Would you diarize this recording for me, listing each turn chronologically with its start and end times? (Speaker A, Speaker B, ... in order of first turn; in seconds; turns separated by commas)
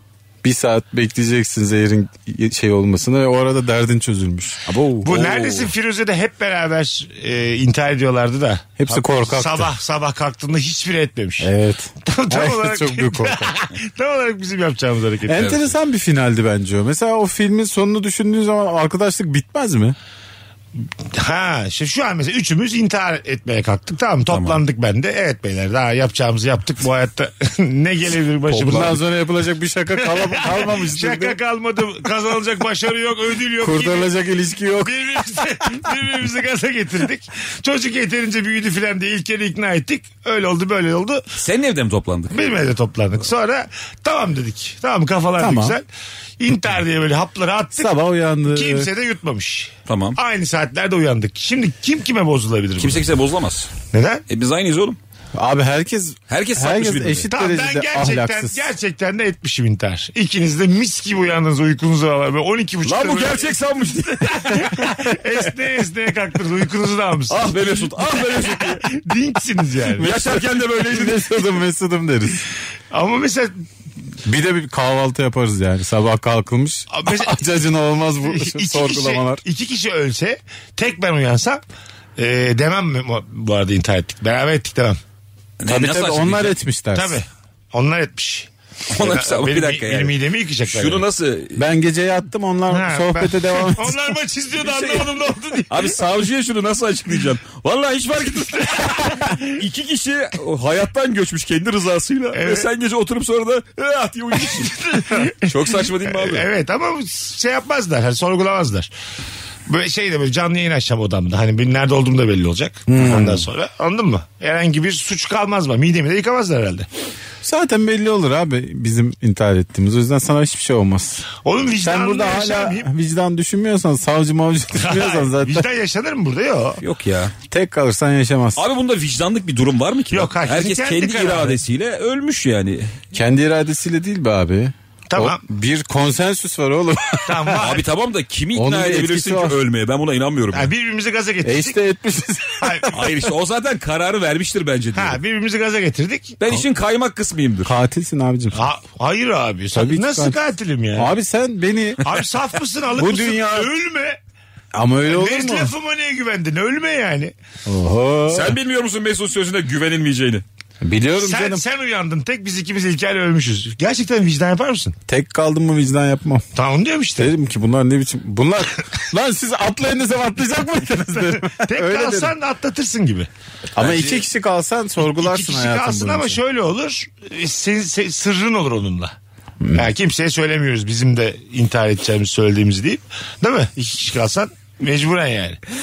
Speaker A: 0.4-5.5, Speaker B: 5.0-11.5, Speaker A: 8.8-9.7, Speaker A: 11.4-13.5, Speaker B: 12.0-15.7, Speaker A: 15.3-19.9, Speaker B: 21.1-29.0, Speaker C: 24.3-24.6, Speaker A: 28.5-31.4, Speaker B: 29.9-34.1, Speaker A: 33.6-34.9, Speaker B: 34.8-41.2, Speaker C: 41.4-42.6, Speaker B: 42.3-45.8, Speaker A: 45.4-45.8, Speaker B: 46.4-48.0, Speaker A: 47.8-48.9, Speaker B: 48.5-53.1, Speaker C: 49.9-50.2, Speaker C: 52.8-53.7, Speaker B: 53.9-54.2, Speaker C: 54.3-55.0, Speaker A: 55.3-58.7, Speaker C: 56.3-57.3, Speaker B: 57.3-63.5, Speaker C: 62.8-64.9, Speaker B: 64.3-67.5, Speaker C: 67.3-68.9, Speaker B: 68.5-70.1, Speaker C: 70.0-71.6, Speaker A: 70.5-72.5, Speaker B: 72.9-73.6, Speaker A: 74.2-79.4, Speaker B: 76.9-77.4, Speaker B: 78.2-81.6, Speaker B: 82.2-85.0, Speaker C: 85.6-86.6, Speaker A: 85.7-87.2, Speaker B: 86.9-91.0, Speaker C: 88.9-91.6, Speaker A: 91.5-94.0, Speaker B: 92.7-96.0, Speaker C: 94.6-95.2, Speaker C: 95.7-106.5, Speaker B: 98.7-99.5, Speaker B: 102.3-102.7, Speaker B: 104.5-108.9, Speaker B: 109.7-116.9, Speaker A: 112.9-113.5, Speaker A: 117.4-121.3, Speaker B: 121.4-122.9, Speaker A: 121.8-125.7, Speaker B: 124.7-126.8, Speaker C: 126.8-127.3, Speaker A: 127.5-128.6, Speaker C: 128.6-133.0, Speaker B: 130.1-131.6, Speaker A: 133.1-137.6, Speaker B: 135.1-135.4, Speaker B: 137.2-137.8, Speaker C: 137.6-140.7, Speaker A: 138.5-139.6, Speaker B: 140.5-141.8, Speaker A: 141.4-142.9, Speaker B: 142.6-143.1, Speaker C: 142.9-145.2, Speaker B: 144.9-146.4, Speaker C: 146.4-147.7, Speaker A: 147.6-148.6, Speaker B: 148.5-151.1, Speaker A: 149.7-150.4, Speaker A: 150.9-152.1, Speaker B: 152.0-154.2, Speaker A: 152.9-153.7, Speaker A: 154.7-155.7, Speaker B: 155.1-157.3, Speaker A: 157.7-158.5, Speaker C: 158.3-160.4, Speaker A: 160.8-161.6, Speaker B: 161.2-164.9, Speaker A: 165.1-166.4, Speaker B: 166.5-167.3, Speaker A: 167.2-172.3, Speaker B: 171.1-173.3, Speaker A: 173.7-176.4, Speaker C: 173.8-174.2, Speaker B: 175.0-179.1, Speaker B: 179.7-185.6